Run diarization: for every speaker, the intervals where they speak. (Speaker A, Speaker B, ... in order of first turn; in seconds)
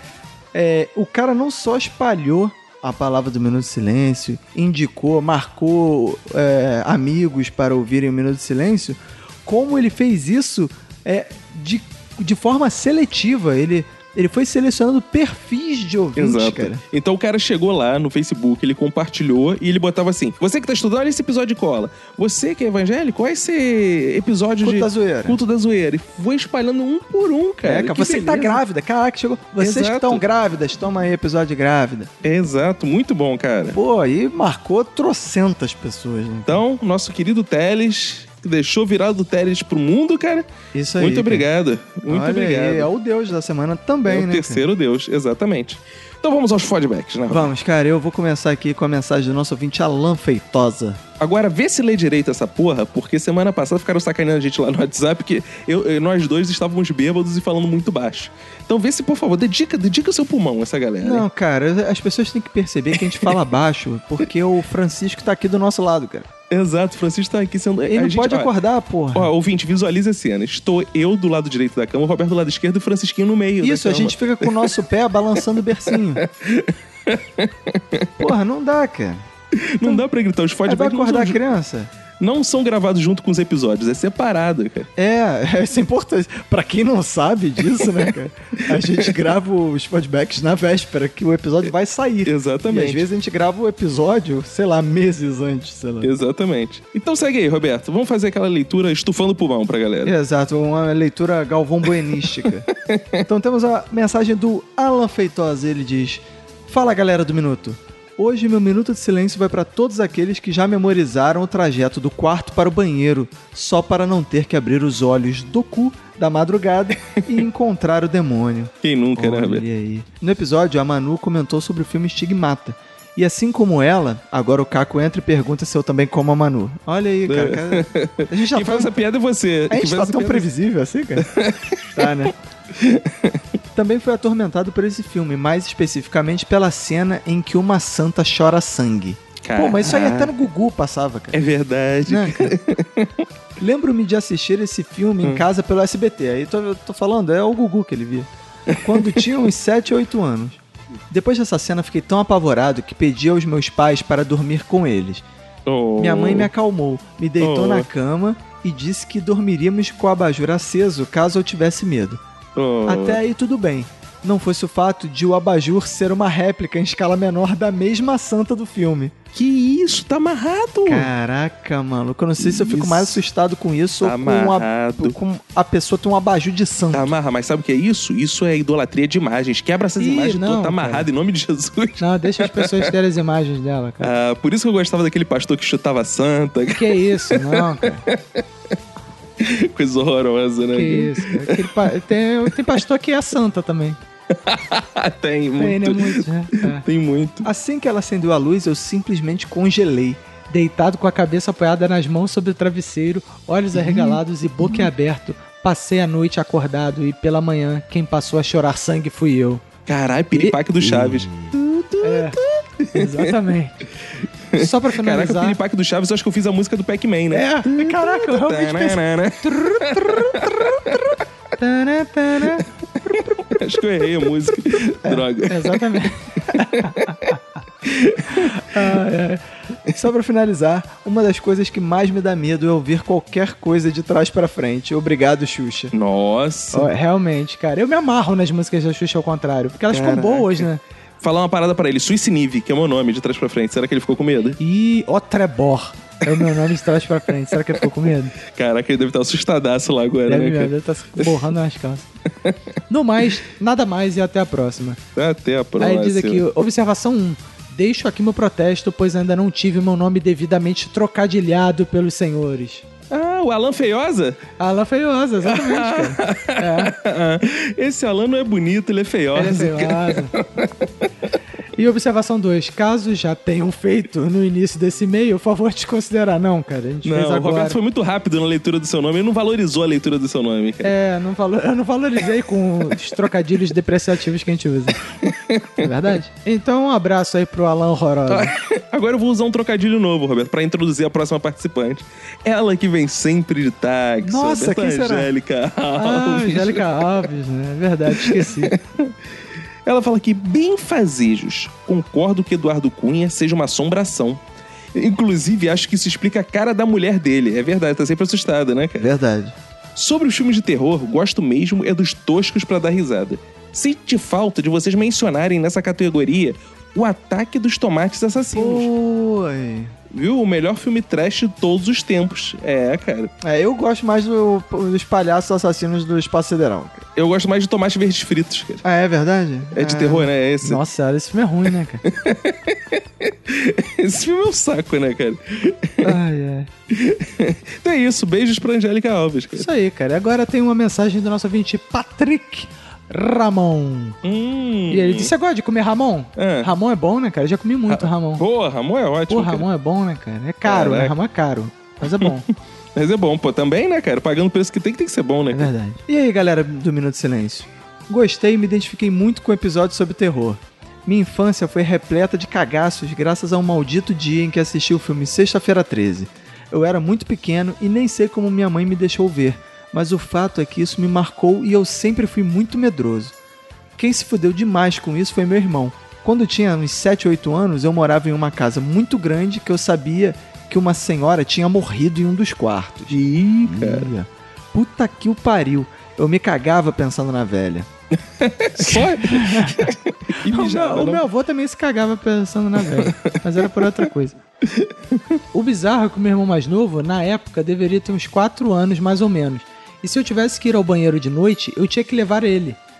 Speaker A: 0.5-16.8, 24.6-25.4, 27.6-32.1, 33.7-36.6, 40.7-41.5, 42.0-44.6, 47.3-51.0, 61.0-66.3, 67.9-69.3, 73.6-76.2, 78.2-79.2, 80.7-81.9, 85.0-96.1, 100.0-102.7, 103.2-128.9, 129.7-131.3, 131.9-132.3, 133.7-141.4, 142.1-142.5, 143.6-148.3, 148.8-155.2, 156.0-162.2, 162.8-169.1, 170.8-177.1, 180.0-181.1, 182.0-184.1, 186.8-188.0, 190.7-194.0, 195.6-196.8, 197.4-209.6, 210.3-212.4, 212.9-213.7, 214.6-215.5, 217.3-220.6, 221.6-222.6, 225.0-226.9, 228.7-235.9, 236.7-240.8, 244.6-248.3, 250.3-252.0, 252.9-255.0, 255.8-262.8, 264.6-266.8, 269.5-270.3, 271.8-277.7, 280.8-285.0, 285.8-288.5, 294.2-295.3, 296.0-298.7, 309.0-309.5, 318.4-319.9, 323.4-327.0, 328.8-332.0, 336.0-336.7, 339.6-344.1, 344.9-348.4, 349.3-352.4, 355.5-373.3, 374.0-387.9, 388.8-394.4, 395.5-402.8
Speaker B: 16.1-28.6, 29.6-30.2, 32.2-33.8, 36.5-40.5, 41.0-42.9, 44.1-47.5, 51.2-61.2, 66.5-68.5, 69.1-74.6, 76.2-78.1, 79.5-81.4, 82.2-84.9, 88.7-89.2, 92.2-93.0, 96.0-100.1, 102.9-103.2, 118.8-119.7, 127.3-130.5, 131.2-132.1, 132.8-133.4, 139.4-140.3, 141.3-143.1, 148.7-149.3, 155.7-156.5, 157.4-157.8, 162.6-163.2, 169.3-171.1, 172.4-173.2, 174.0-175.2, 176.9-182.9, 184.0-188.4, 189.4-192.7, 194.4-197.5, 203.7-204.2, 209.8-213.4, 214.5-221.2, 222.4-225.9, 226.5-229.0, 235.9-236.9, 240.1-240.5, 241.2-244.6, 247.6-247.9, 248.5-251.4, 255.2-256.4, 263.1-264.4, 265.4-271.0, 277.0-280.9, 285.2-286.0, 288.3-297.3, 298.1-299.1, 299.9-304.4, 304.9-309.1, 309.9-318.9, 320.1-323.3, 327.1-328.8, 329.7-330.8, 332.0-336.1, 336.9-339.7, 344.2-345.3, 346.4-346.7, 347.9-349.7, 350.6-351.1, 352.0-352.4, 352.9-355.7, 383.1-384.1, 388.4-391.2, 392.8-394.0, 394.7-395.2